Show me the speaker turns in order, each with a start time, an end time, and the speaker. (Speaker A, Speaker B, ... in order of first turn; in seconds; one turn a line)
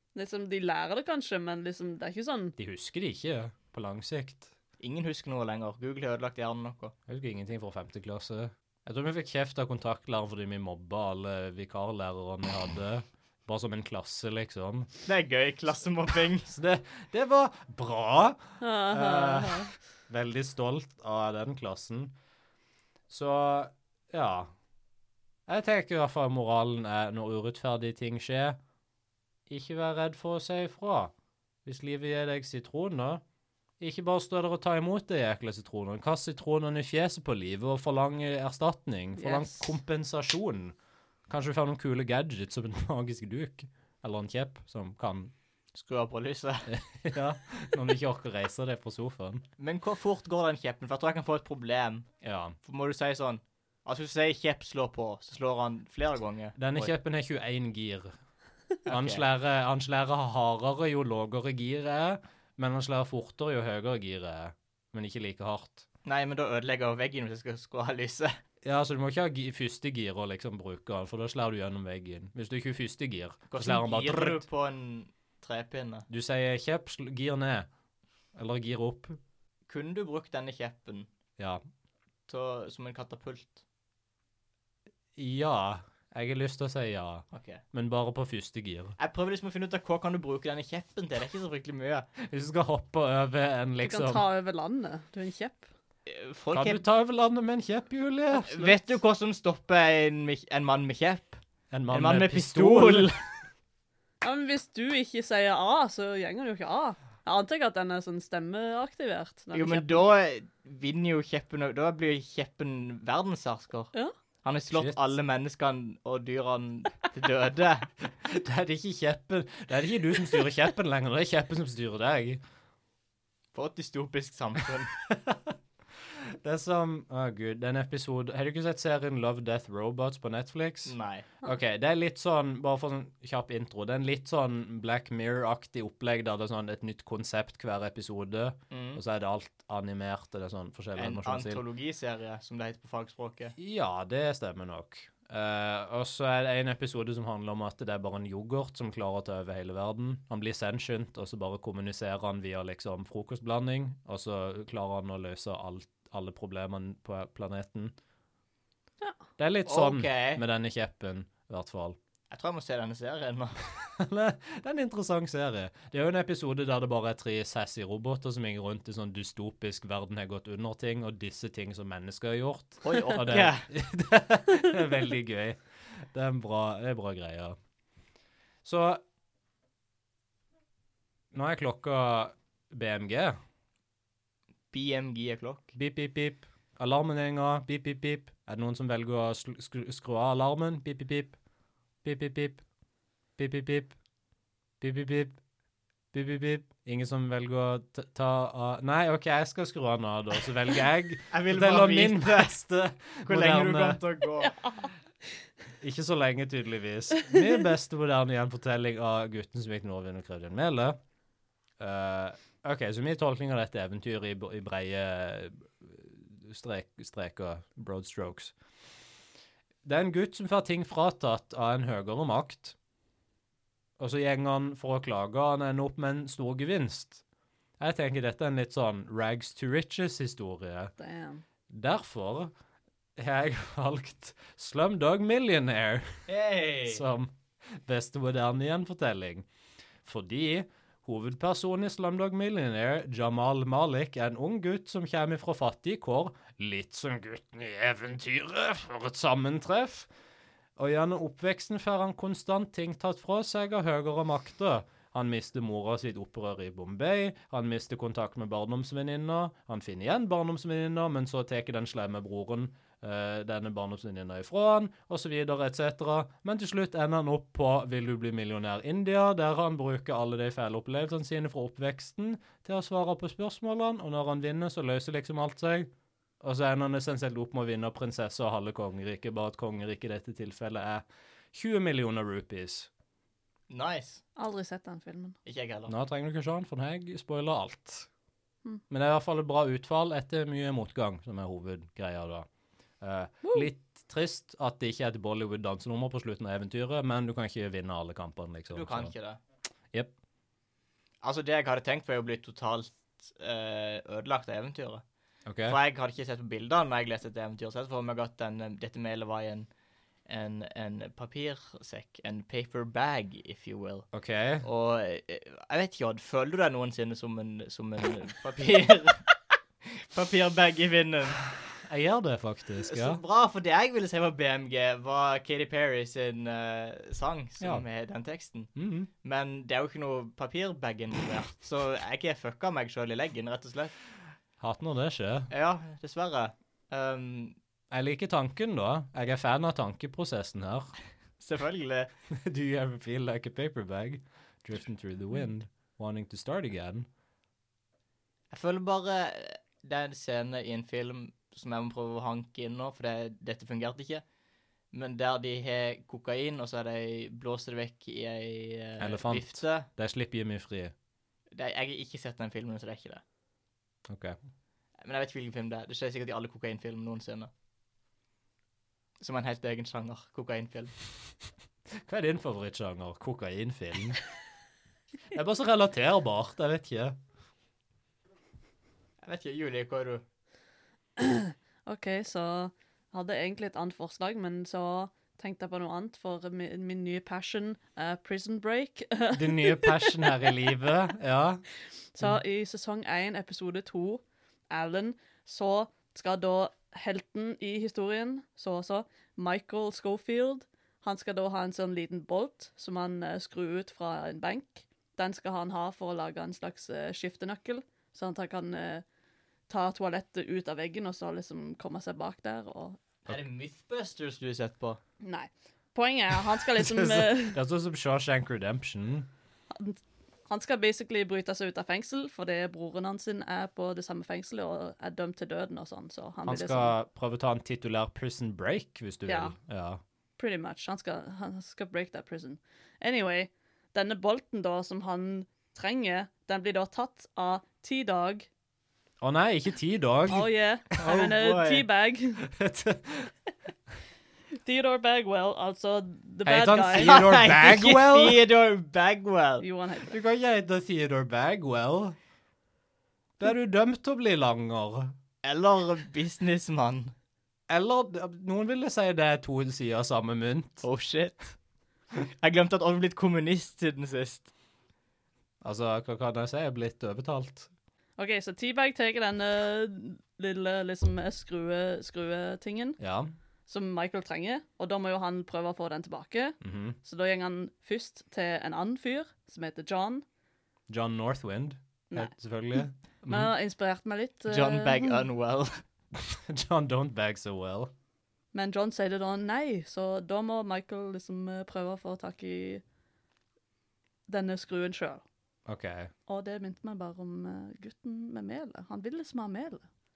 Speaker A: 0.1-2.5
Speaker B: 2.6-4.5
Speaker C: 4.8-6.9
Speaker B: 7.1-14.9
Speaker C: 15.1-16.5
Speaker B: 16.5-22.1
Speaker A: 18.6-19.7
Speaker B: 23.1-24.5
Speaker B: 25.5-28.6
Speaker B: 29.5-31.1
Speaker B: 31.6-33.2
Speaker B: 33.8-40.8
Speaker A: 39.2-39.7
Speaker B: 41.3-45.3
Speaker C: 45.7-46.7
Speaker B: 46.7-49.4
Speaker C: 49.6-52.1
Speaker B: 52.2-52.6
Speaker C: 52.6-56.9
Speaker B: 56.6-58.1
Speaker C: 58.9-59.2
Speaker B: 58.9-65.9
Speaker C: 66.0-68.3
Speaker B: 68.6-74.4
Speaker C: 73.5-76.1
Speaker B: 76.1-77.7
Speaker B: 78.3-79.2
Speaker C: 79.7-81.1
Speaker C: 82.3-83.6
Speaker B: 85.2-89.0
Speaker C: 87.3-87.6
Speaker C: 89.0-92.1
Speaker B: 92.2-94.2
Speaker A: 93.8-95.7
Speaker C: 96.1-96.8
Speaker B: 96.5-98.8
Speaker C: 98.4-103.2
Speaker B: 101.7-103.1
Speaker A: 104.2-110.0
Speaker C: 109.5-113.9
Speaker C: 114.4-117.9
Speaker B: 114.7-115.1
Speaker B: 118.2-122.4
Speaker C: 123.5-124.9
Speaker B: 125.1-125.5
Speaker B: 126.4-141.6
Speaker C: 130.9-131.3
Speaker C: 138.7-139.0
Speaker C: 141.0-143.6
Speaker B: 143.6-157.9
Speaker B: 159.4-162.0
Speaker C: 159.7-160.4
Speaker C: 162.3-163.6
Speaker B: 163.9-177.6
Speaker C: 172.8-173.7
Speaker B: 178.6-179.0
Speaker B: 181.3-183.4
Speaker C: 184.7-185.7
Speaker B: 185.8-191.4
Speaker B: 192.0-192.6
Speaker B: 193.4-193.9
Speaker B: 194.8-195.4
Speaker B: 196.1-204.0
Speaker C: 201.3-202.5
Speaker C: 203.3-204.5
Speaker A: 204.4-204.9
Speaker B: 205.8-211.0
Speaker B: 211.8-218.5
Speaker B: 219.8-222.8
Speaker B: 224.0-227.2
Speaker B: 227.8-230.9
Speaker A: 231.0-231.4
Speaker B: 231.7-232.5
Speaker B: 233.2-236.2
Speaker C: 236.3-237.0
Speaker B: 236.9-239.5
Speaker B: 240.1-250.1
Speaker B: 250.8-275.9
Speaker B: 276.4-282.9
Speaker C: 283.7-284.2
Speaker A: 284.4-285.4
Speaker C: 285.5-285.9
Speaker B: 285.9-288.1
Speaker B: 288.9-292.5
Speaker B: 293.0-299.1
Speaker A: 293.4-293.7
Speaker C: 298.7-299.4
Speaker C: 301.2-305.0
Speaker B: 305.5-305.8
Speaker C: 305.7-309.7
Speaker C: 310.3-314.1
Speaker B: 314.1-314.7
Speaker C: 314.6-319.3
Speaker C: 319.8-321.4
Speaker B: 321.8-323.2
Speaker C: 322.8-328.7
Speaker B: 327.6-327.9
Speaker B: 328.8-329.1
Speaker C: 329.2-333.9
Speaker B: 334.6-335.5
Speaker C: 335.5-337.6
Speaker B: 337.9-340.9
Speaker C: 341.4-342.1
Speaker B: 342.3-347.1
Speaker C: 348.5-354.2
Speaker C: 354.9-359.9
Speaker B: 359.0-360.9
Speaker C: 361.5-363.2
Speaker B: 364.1-364.4
Speaker C: 365.0-367.5
Speaker C: 369.2-370.9
Speaker B: 372.1-374.2
Speaker B: 375.3-377.2
Speaker C: 379.2-380.2
Speaker A: 381.2-390.5
Speaker B: 389.3-391.6
Speaker A: 392.2-409.0
Speaker A: 409.7-413.0
Speaker C: 413.3-415.0
Speaker A: 415.2-417.6
Speaker B: 416.7-419.3
Speaker A: 419.7-426.9
Speaker B: 426.4-430.0
Speaker A: 429.3-429.6
Speaker A: 430.4-438.5
Speaker B: 439.2-440.5
Speaker A: 440.3-442.5
Speaker C: 441.0-441.9
Speaker B: 442.4-443.3
Speaker A: 444.6-447.2
Speaker B: 446.4-448.4
Speaker C: 447.0-449.6
Speaker A: 449.6-450.2
Speaker B: 450.1-452.2
Speaker B: 453.4-455.1
Speaker C: 455.4-457.1
Speaker B: 457.7-460.9
Speaker C: 460.8-461.6
Speaker C: 462.4-464.5
Speaker B: 465.6-467.7
Speaker A: 468.2-473.0
Speaker B: 473.0-473.3
Speaker A: 473.7-480.2
Speaker B: 476.6-477.0
Speaker B: 480.9-483.5
Speaker A: 482.1-485.2
Speaker C: 484.5-485.7
Speaker B: 486.1-487.9
Speaker A: 488.5-492.8
Speaker A: 494.3-495.2
Speaker B: 495.7-496.1
Speaker A: 496.3-499.9